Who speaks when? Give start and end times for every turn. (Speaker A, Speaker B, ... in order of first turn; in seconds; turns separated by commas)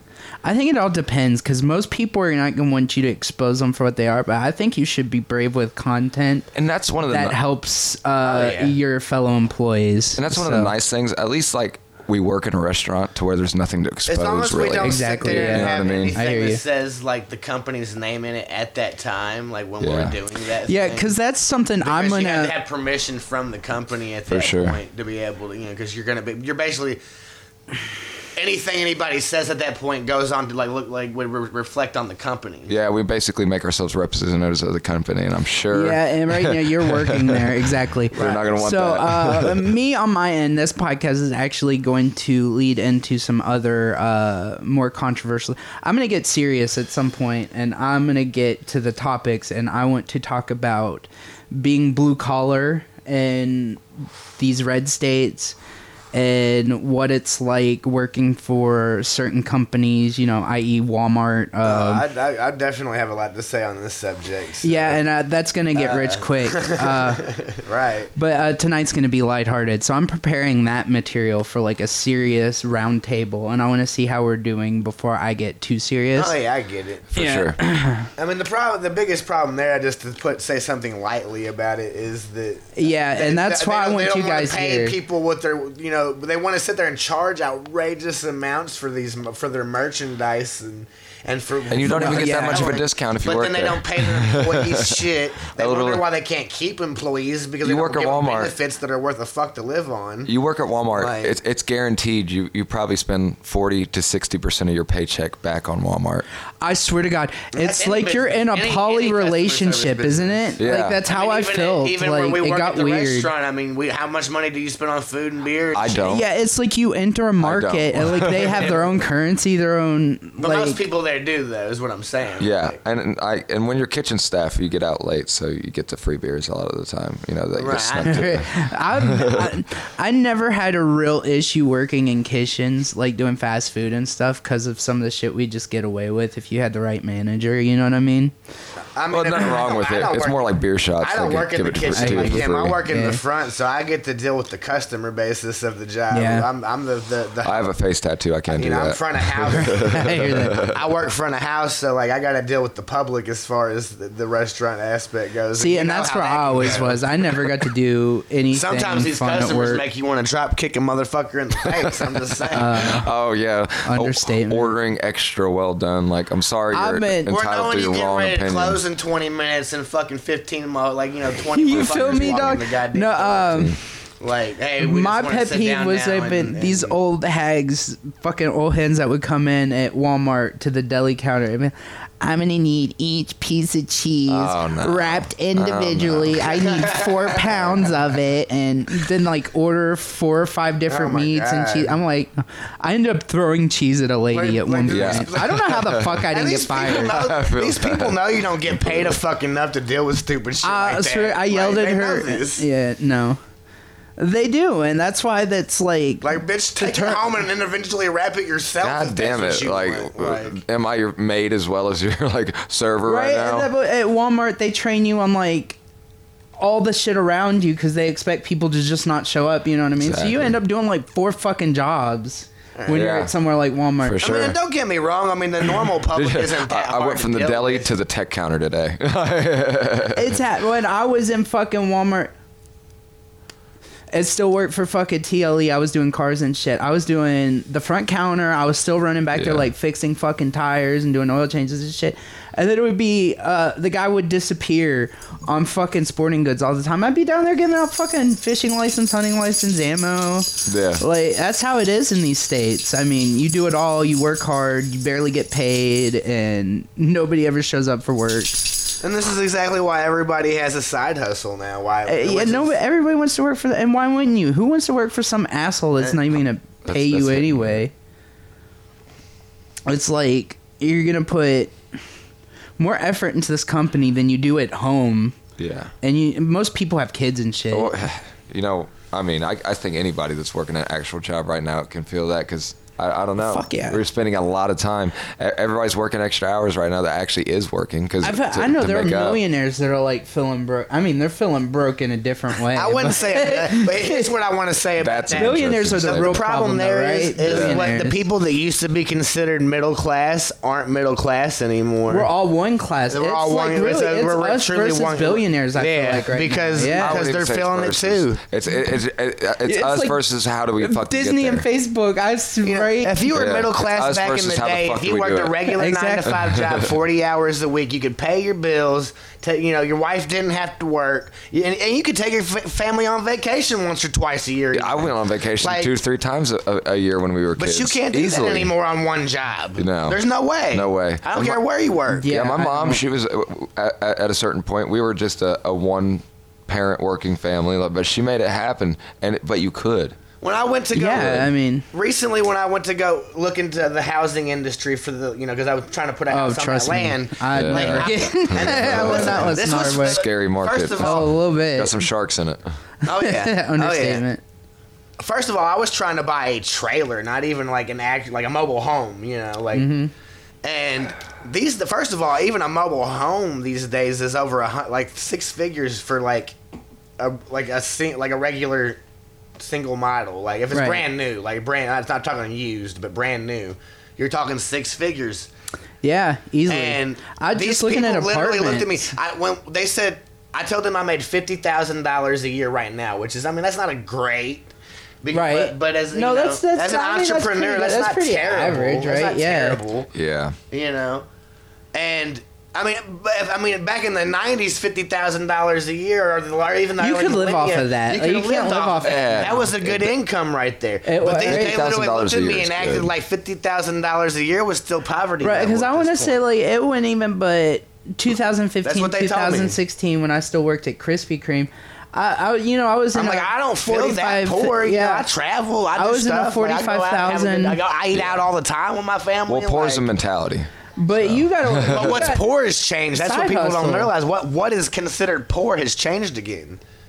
Speaker A: 0.4-6.5, Speaker B: 6.5-7.4, Speaker A: 7.0-10.7, Speaker C: 8.2-8.8, Speaker B: 10.2-16.2, Speaker C: 14.1-21.1, Speaker A: 14.8-16.6, Speaker B: 19.8-20.2, Speaker A: 20.7-22.5, Speaker C: 21.8-27.0, Speaker B: 24.3-24.8, Speaker C: 28.3-32.7, Speaker B: 32.7-39.6, Speaker A: 35.7-53.8, Speaker C: 38.1-38.5, Speaker A: 54.4-55.5, Speaker A: 56.1-62.0, Speaker C: 61.6-65.0, Speaker A: 64.6-67.3, Speaker C: 65.8-68.1, Speaker A: 68.2-76.3, Speaker C: 76.2-77.1, Speaker B: 77.1-77.6, Speaker A: 77.1-78.1, Speaker C: 78.2-100.3, Speaker A: 82.7-85.0, Speaker B: 91.7-96.0, Speaker A: 91.9-92.8, Speaker B: 97.6-98.5, Speaker B: 100.2-106.2, Speaker C: 100.9-101.3, Speaker A: 106.6-113.3, Speaker C: 107.5-116.0, Speaker B: 110.6-111.0, Speaker B: 115.7-116.2, Speaker A: 116.0-120.8, Speaker B: 117.4-118.7, Speaker C: 118.5-118.9, Speaker C: 120.4-122.8, Speaker B: 122.4-129.5, Speaker C: 127.6-128.4, Speaker A: 128.0-138.3, Speaker C: 138.9-147.7, Speaker B: 139.1-142.8, Speaker A: 141.9-143.2, Speaker A: 146.1-146.5, Speaker B: 147.4-150.8, Speaker C: 148.5-157.4, Speaker A: 149.6-150.7, Speaker A: 155.6-159.8, Speaker C: 158.5-162.9, Speaker A: 162.5-163.1, Speaker B: 162.6-168.8, Speaker A: 163.8-164.8, Speaker A: 166.7-167.3, Speaker C: 167.2-173.6, Speaker A: 171.5-173.8, Speaker B: 171.8-172.6, Speaker B: 173.5-173.8, Speaker C: 174.2-177.0, Speaker A: 174.8-197.2, Speaker B: 184.3-186.5, Speaker C: 186.5-187.8, Speaker C: 190.9-191.9, Speaker C: 194.3-195.6, Speaker B: 194.9-196.3, Speaker C: 196.3-202.6, Speaker B: 196.8-199.2, Speaker A: 200.6-203.4, Speaker A: 204.2-207.3, Speaker C: 206.2-210.6, Speaker B: 208.8-213.7, Speaker A: 213.0-215.8, Speaker A: 216.6-224.3, Speaker B: 220.0-220.5, Speaker C: 222.8-223.1, Speaker B: 222.9-223.3, Speaker B: 224.0-224.6, Speaker C: 224.2-227.9, Speaker B: 226.1-230.4, Speaker A: 230.1-232.3, Speaker A: 234.1-258.9, Speaker B: 239.3-239.7, Speaker B: 250.7-251.0, Speaker C: 259.0-262.8, Speaker A: 262.1-267.9, Speaker B: 266.8-267.8, Speaker A: 269.9-271.8, Speaker A: 272.8-275.4, Speaker B: 275.6-275.9, Speaker A: 276.0-278.0, Speaker B: 277.7-289.4, Speaker A: 283.4-284.0, Speaker A: 288.2-294.3, Speaker C: 292.7-302.3, Speaker B: 295.0-296.4, Speaker A: 295.3-298.2, Speaker B: 297.4-297.8, Speaker A: 302.1-307.2, Speaker C: 303.1-308.4, Speaker B: 306.9-311.7, Speaker A: 309.6-310.2, Speaker A: 310.8-313.2, Speaker C: 312.6-325.9, Speaker B: 313.3-315.6, Speaker A: 315.7-316.3, Speaker B: 316.4-316.9, Speaker B: 324.7-328.7, Speaker C: 327.6-332.3, Speaker B: 329.8-331.6, Speaker A: 332.1-333.0, Speaker B: 332.2-340.2, Speaker C: 340.4-351.3, Speaker A: 340.9-341.9, Speaker A: 346.3-350.2, Speaker B: 347.5-352.6, Speaker A: 351.0-352.1, Speaker C: 353.0-354.2, Speaker A: 353.0-354.4, Speaker C: 355.2-359.9, Speaker A: 359.7-360.1, Speaker C: 360.6-366.5, Speaker C: 367.2-369.0, Speaker C: 369.6-375.5, Speaker A: 370.7-371.0, Speaker A: 376.0-379.1, Speaker C: 376.7-384.7, Speaker C: 385.2-390.1, Speaker A: 385.3-389.8, Speaker B: 390.1-390.6, Speaker C: 390.7-391.2, Speaker C: 391.9-406.4, Speaker A: 397.0-399.7, Speaker B: 399.0-400.1, Speaker A: 401.0-401.8, Speaker B: 401.3-403.1, Speaker A: 405.4-415.3, Speaker C: 408.8-409.8, Speaker C: 413.1-420.1, Speaker A: 415.9-417.8, Speaker B: 418.1-418.4, Speaker B: 419.5-422.3, Speaker A: 421.0-422.4, Speaker C: 421.9-426.8, Speaker A: 423.1-424.1